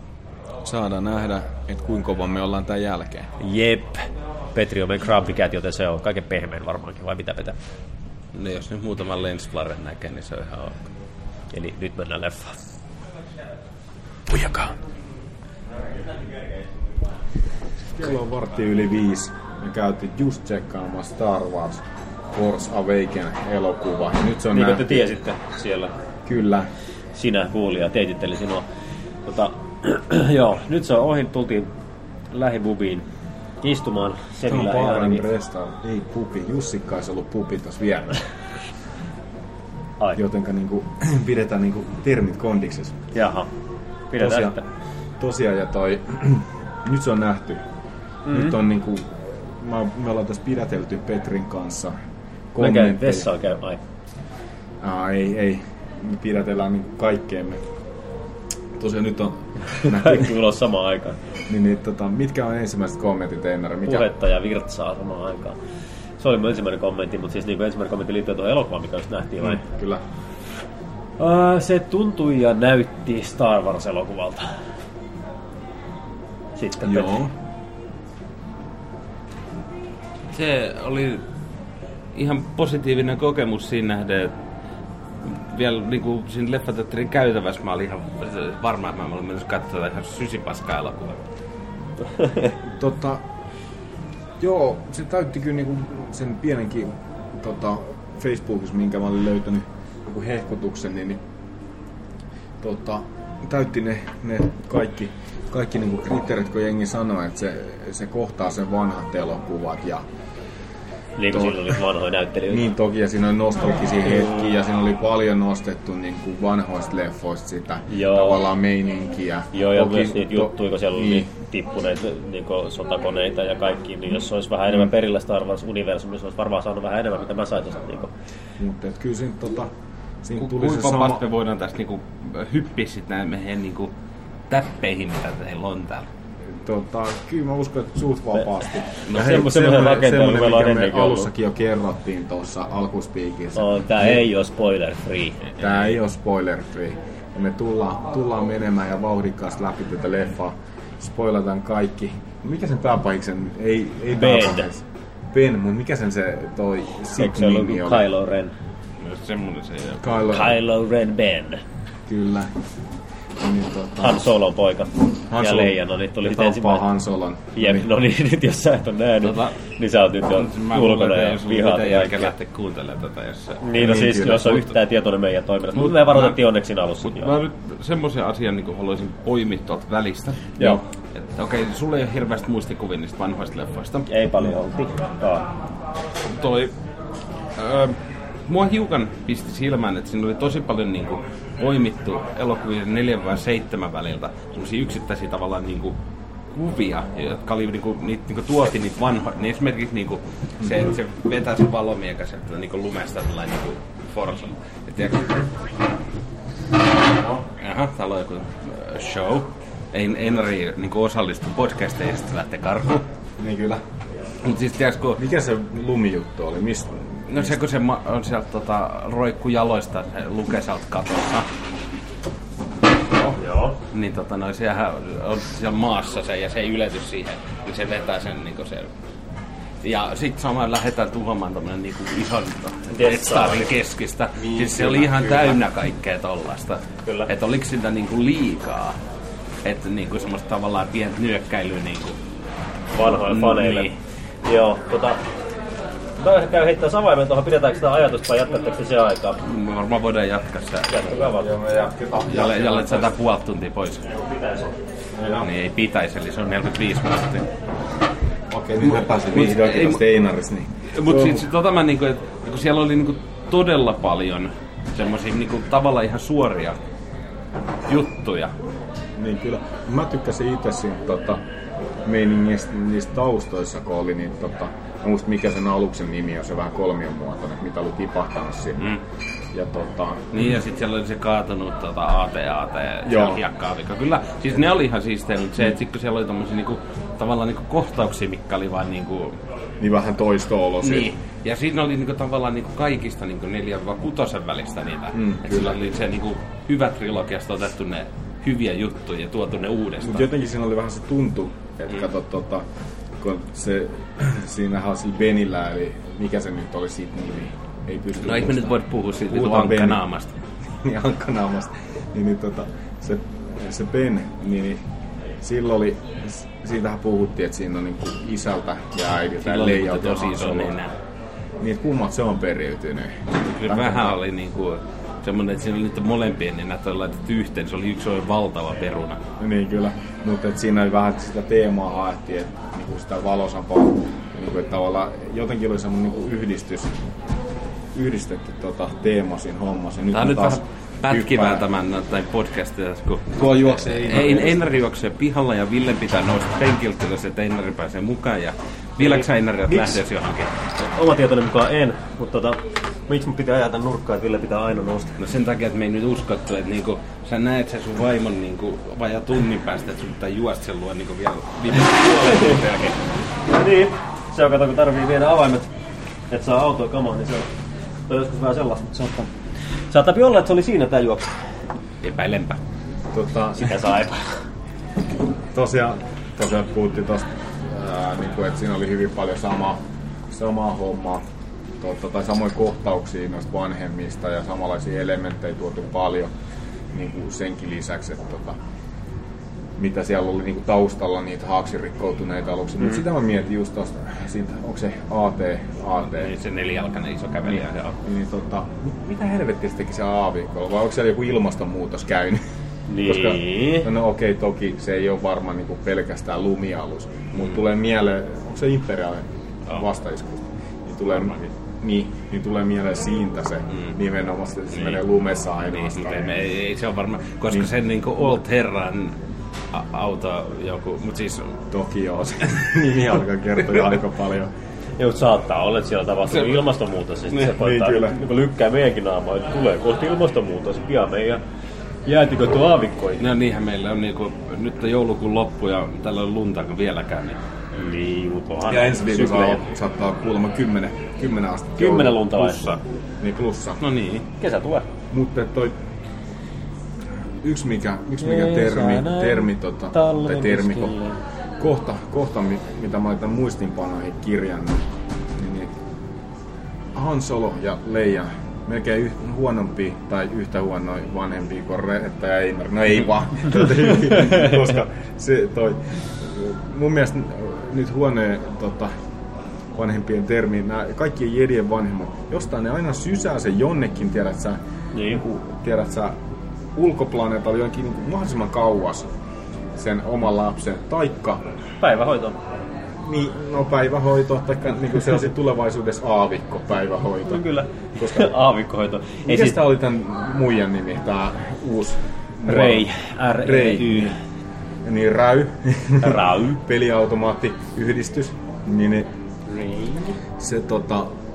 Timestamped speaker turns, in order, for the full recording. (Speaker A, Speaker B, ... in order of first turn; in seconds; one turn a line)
Speaker A: 0.6-3.3
Speaker B: 3.4-7.6
Speaker C: 8.3-10.9
Speaker B: 11.5-12.6
Speaker A: 14.3-14.7
Speaker A: 17.9-25.1
Speaker B: 24.5-25.9
Speaker A: 26.2-26.7
Speaker B: 27.1-28.7
Speaker B: 29.2-31.7
Speaker B: 32.3-33.1
Speaker B: 33.6-35.3
Speaker A: 34.5-38.2
Speaker A: 40.2-43.0
Speaker B: 43.1-43.5
Speaker B: 44.1-44.6
Speaker A: 44.2-44.6
Speaker A: 45.2-47.6
Speaker B: 48.3-48.6
Speaker A: 48.3-52.0
Speaker A: 52.5-53.3
Speaker B: 52.6-53.8
Speaker A: 54.8-57.6
Speaker A: 58.8-60.4
Speaker B: 59.8-61.2
Speaker A: 61.5-64.1
Speaker B: 63.9-65.6
Speaker B: 66.2-69.6
Speaker A: 69.4-70.0
Speaker B: 71.2-74.5
Speaker B: 76.6-77.2
Speaker A: 76.8-77.3
Speaker C: 80.3-81.2
Speaker C: 82.1-84.3
Speaker C: 85.2-91.2
Speaker A: 92.6-93.2
Speaker A: 94.4-101.2
Speaker A: 102.6-110.1
Speaker B: 111.2-112.7
Speaker A: 111.3-111.8
Speaker A: 112.5-121.3
Speaker B: 117.9-118.4
Speaker B: 119.5-128.1
Speaker A: 128.6-129.7
Speaker A: 130.2-131.2
Speaker C: 130.4-133.9
Speaker C: 134.5-136.1
Speaker A: 136.5-144.2
Speaker C: 139.1-139.4
Speaker B: 139.1-141.3
Speaker B: 143.6-145.4
Speaker A: 145.6-158.1
Speaker C: 145.6-145.9
Speaker B: 154.1-154.7
Speaker B: 157.2-158.5
Speaker C: 159.0-160.2
Speaker A: 160.0-160.6
Speaker B: 160.3-161.6
Speaker A: 162.1-162.5
Speaker A: 163.4-164.2
Speaker B: 164.0-166.9
Speaker A: 165.3-167.9
Speaker B: 167.6-172.3
Speaker C: 169.2-169.6
Speaker C: 170.3-173.6
Speaker B: 173.6-177.3
Speaker A: 173.7-174.7
Speaker C: 175.7-176.4
Speaker C: 177.0-180.6
Speaker C: 181.2-184.1
Speaker B: 184.1-185.5
Speaker C: 186.3-186.7
Speaker C: 187.6-196.0
Speaker C: 196.5-205.5
Speaker C: 207.6-213.1
Speaker A: 213.4-213.8
Speaker C: 214.4-215.2
Speaker A: 215.2-217.6
Speaker C: 217.3-221.5
Speaker B: 223.3-223.8
Speaker C: 223.9-228.9
Speaker C: 229.8-239.0
Speaker B: 232.9-233.7
Speaker A: 234.4-235.6
Speaker C: 239.6-242.2
Speaker B: 242.9-245.2
Speaker C: 243.0-243.9
Speaker B: 246.2-249.4
Speaker C: 249.4-251.1
Speaker B: 250.9-251.5
Speaker A: 251.1-253.1
Speaker C: 252.3-254.1
Speaker B: 254.1-254.7
Speaker A: 255.1-255.5
Speaker C: 255.4-257.5
Speaker A: 258.5-261.4
Speaker C: 258.8-260.0
Speaker C: 260.9-266.8
Speaker C: 267.9-268.5
Speaker A: 269.2-271.4
Speaker A: 272.1-278.9
Speaker A: 279.5-280.4
Speaker C: 280.3-289.4
Speaker A: 283.1-283.4
Speaker A: 289.8-291.1
Speaker C: 290.8-300.3
Speaker A: 295.1-295.8
Speaker A: 300.0-302.6
Speaker A: 303.2-308.8
Speaker C: 308.2-310.4
Speaker A: 309.3-310.0
Speaker A: 310.7-314.8
Speaker A: 315.4-320.7
Speaker C: 319.4-320.9
Speaker A: 321.6-324.2
Speaker C: 323.4-329.2
Speaker A: 329.4-337.0
Speaker A: 337.9-341.6
Speaker C: 340.1-350.6
Speaker A: 343.4-344.6
Speaker B: 349.0-350.0
Speaker B: 350.9-355.2
Speaker C: 355.2-363.0
Speaker B: 362.3-362.6
Speaker B: 363.5-365.7
Speaker B: 366.3-367.5
Speaker B: 368.1-369.3
Speaker B: 369.9-371.3
Speaker C: 372.0-372.6
Speaker A: 373.1-373.8
Speaker B: 373.6-374.4
Speaker A: 375.5-381.2
Speaker A: 381.8-386.3
Speaker A: 386.9-388.6
Speaker A: 389.8-396.3
Speaker C: 396.2-398.0
Speaker A: 397.5-402.4
Speaker B: 402.9-403.9
Speaker A: 403.0-416.4
Speaker C: 407.4-407.6
Speaker C: 411.1-411.5
Speaker C: 414.7-415.0
Speaker C: 415.7-419.2
Speaker C: 419.7-421.6
Speaker A: 421.7-424.5
Speaker B: 425.0-431.4
Speaker C: 426.3-426.6
Speaker A: 427.5-428.2
Speaker B: 432.1-433.3
Speaker C: 433.2-437.4
Speaker B: 437.7-439.6
Speaker A: 438.7-442.4
Speaker B: 441.8-442.8
Speaker C: 442.4-442.8
Speaker A: 443.2-443.8
Speaker C: 443.8-444.3
Speaker B: 444.4-444.9
Speaker A: 445.1-445.7
Speaker A: 447.4-450.9
Speaker B: 448.2-451.2
Speaker A: 451.6-454.9
Speaker A: 455.4-455.7
Speaker A: 456.9-468.9
Speaker A: 469.7-476.2
Speaker B: 474.9-475.2
Speaker A: 476.8-479.1
Speaker A: 479.8-481.4
Speaker B: 481.8-482.4
Speaker A: 483.0-487.4
Speaker B: 487.3-489.6
Speaker A: 488.0-488.3
Speaker A: 489.2-494.1
Speaker B: 492.4-494.2
Speaker A: 494.8-499.1
Speaker B: 496.0-496.6
Speaker B: 499.5-500.2
Speaker A: 500.4-501.1